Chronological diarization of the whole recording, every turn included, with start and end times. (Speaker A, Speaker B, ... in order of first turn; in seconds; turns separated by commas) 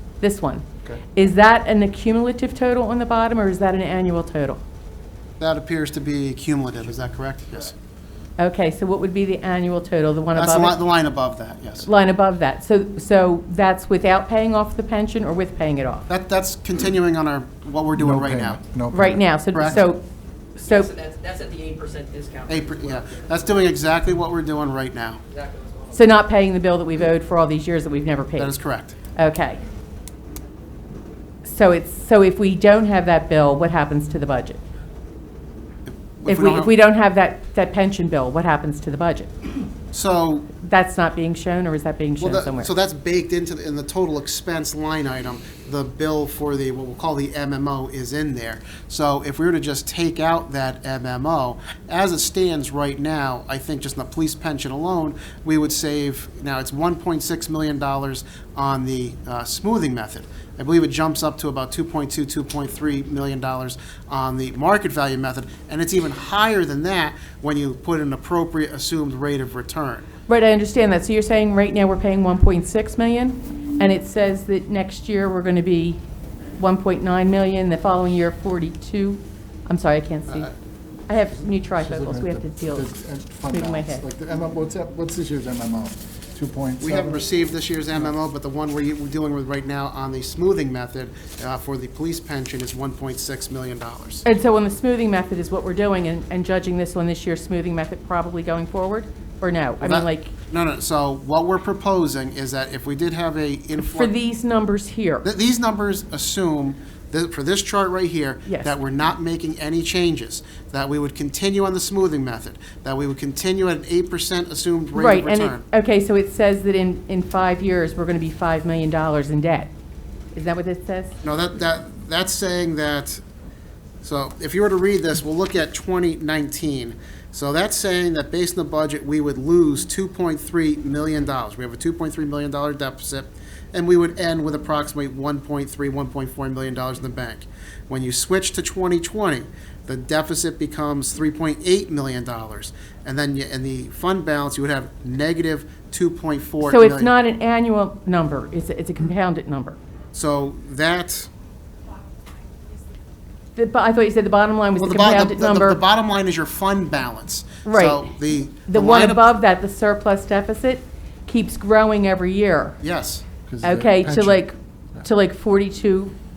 Speaker A: 0.2-4.6, Speaker B: 5.4-7.8, Speaker A: 8.4-10.7, Speaker B: 10.3-11.9, Speaker A: 11.8-16.1, Speaker B: 16.1-18.6, Speaker C: 17.9-19.8, Speaker A: 18.9-20.0, Speaker B: 19.5-19.8, Speaker A: 20.6-20.9, Speaker D: 20.6-23.6, Speaker B: 22.5-25.2, Speaker D: 25.3-26.0, Speaker A: 25.9-28.5, Speaker B: 28.4-28.9, Speaker A: 29.1-29.6, Speaker A: 31.4-34.6, Speaker B: 35.9-36.7, Speaker A: 36.2-39.5, Speaker B: 39.9-40.5, Speaker A: 40.6-42.7, Speaker B: 42.2-70.1, Speaker A: 70.3-76.0, Speaker A: 76.6-80.5, Speaker A: 81.1-82.9, Speaker C: 81.8-87.2, Speaker A: 83.5-84.0, Speaker B: 86.8-94.2, Speaker A: 94.2-100.3, Speaker B: 99.8-104.1, Speaker A: 103.8-105.2, Speaker B: 105.2-115.6, Speaker A: 108.5-108.7, Speaker A: 114.9-119.7, Speaker A: 120.3-121.1, Speaker B: 121.2-123.2, Speaker B: 124.0-147.1, Speaker A: 146.6-149.8, Speaker B: 150.1-151.3, Speaker A: 153.6-155.8, Speaker B: 154.8-159.2, Speaker A: 157.6-158.1, Speaker A: 158.7-162.8, Speaker B: 162.8-163.3, Speaker C: 163.4-164.4, Speaker A: 163.6-166.1